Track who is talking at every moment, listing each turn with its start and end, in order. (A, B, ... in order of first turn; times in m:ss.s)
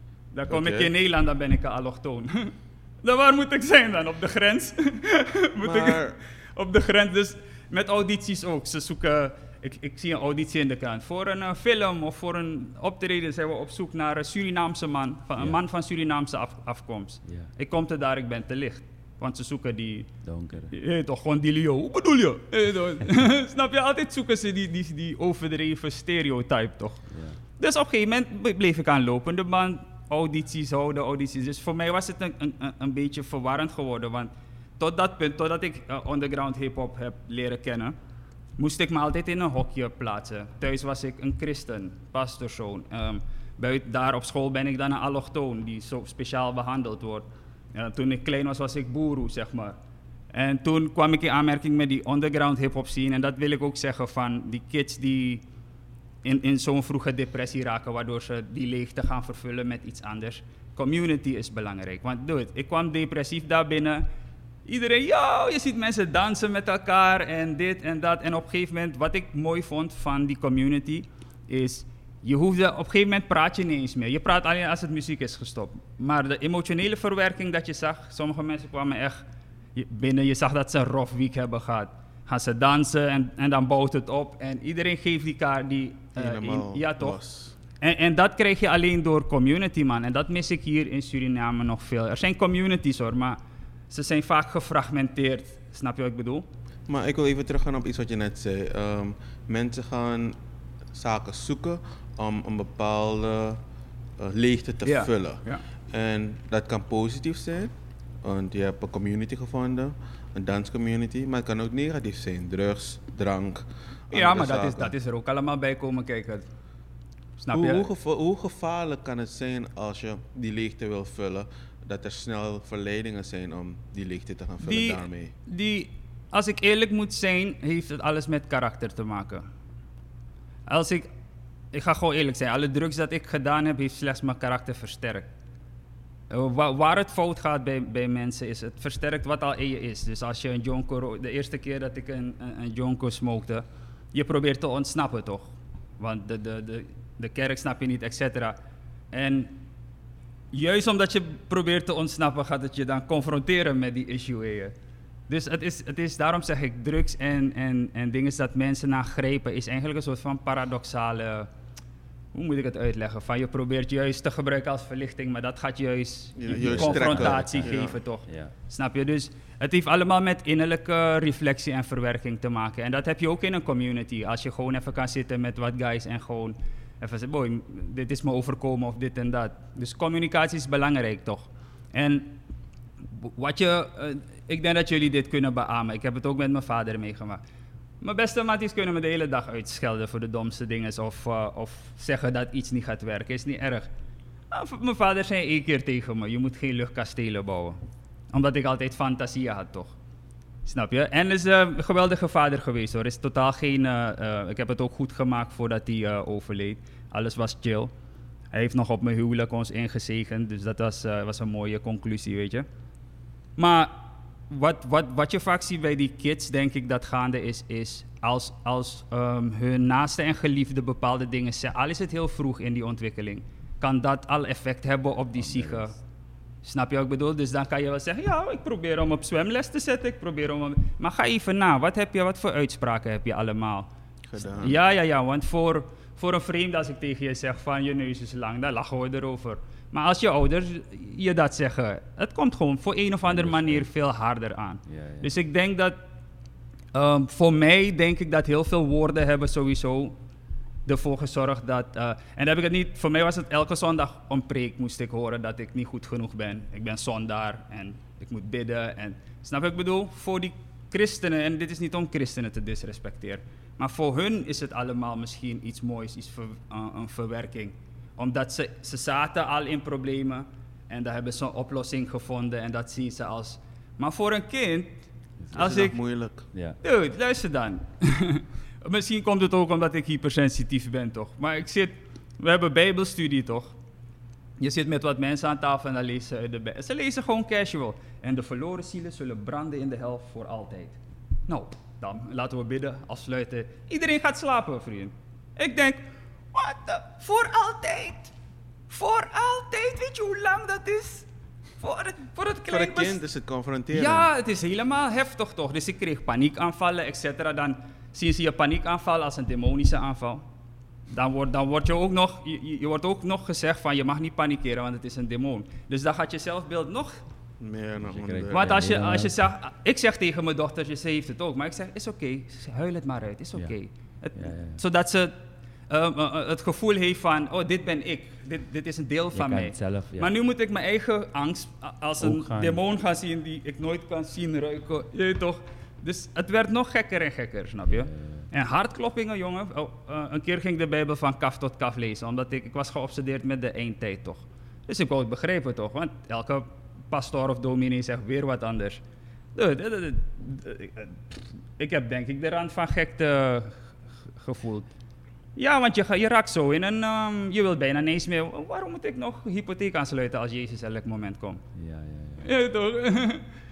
0:00.3-0:20.1 A
0:00.5-0:00.9 B
0:05.6-0:06.2 B
0:17.2-0:17.5 C
0:20.2-0:20.7 C
0:20.7-0:38.0 A
0:27.1-0:27.4 C
0:38.6-0:49.8 A
0:50.3-0:55.4 A
0:56.2-1:04.1 A
1:04.6-1:19.2 A
1:19.7-1:27.2 A
1:26.1-1:27.5 B
1:27.8-1:33.4 A
1:33.9-1:36.4 A
1:36.9-1:40.4 B
1:40.9-1:43.6 B
1:44.2-1:54.9 B
1:44.8-1:45.6 A
1:54.1-1:56.5 A
1:57.4-1:57.9 A
1:57.5-2:05.3 B
2:04.6-2:09.4 A
2:10.7-2:11.1 A
2:11.7-2:15.3 A
2:16.3-2:28.6 A
2:29.1-2:29.6 A
2:30.5-2:34.7 A
2:35.3-2:41.5 A
2:42.3-3:02.4 A
2:46.4-2:48.0 B
2:46.5-2:47.7 C
2:48.3-2:48.5 C
3:03.0-3:07.4 A
3:08.0-3:13.9 A
3:14.5-3:17.8 A
3:18.3-3:19.9 A
3:20.6-3:27.9 A
3:28.5-3:32.6 A
3:33.6-3:45.9 A
3:45.4-3:46.0 C
3:46.6-3:53.9 A
3:54.3-3:54.8 B
3:54.5-4:06.0 A
4:03.2-4:03.9 C
4:04.8-4:05.3 C
4:06.9-4:10.2 A
4:10.8-4:36.0 A
4:35.4-4:35.7 C
4:35.5-4:36.5 B
4:36.5-4:36.8 C
4:36.8-4:43.7 A
4:44.6-4:58.3 A
4:58.9-5:01.3 A
5:01.8-5:03.2 A
5:02.7-5:04.3 B
5:03.9-5:10.4 A
5:11.1-5:17.2 A
5:17.6-5:18.9 B
5:18.0-5:19.4 C
5:18.5-5:25.4 A
5:24.4-5:24.8 C
5:25.9-5:49.0 A
5:29.3-5:30.3 C
5:32.2-5:32.8 C
5:37.9-5:38.4 C
5:49.5-5:54.9 A
5:55.6-6:01.6 A
6:01.7-6:02.5 C
6:02.4-6:03.4 A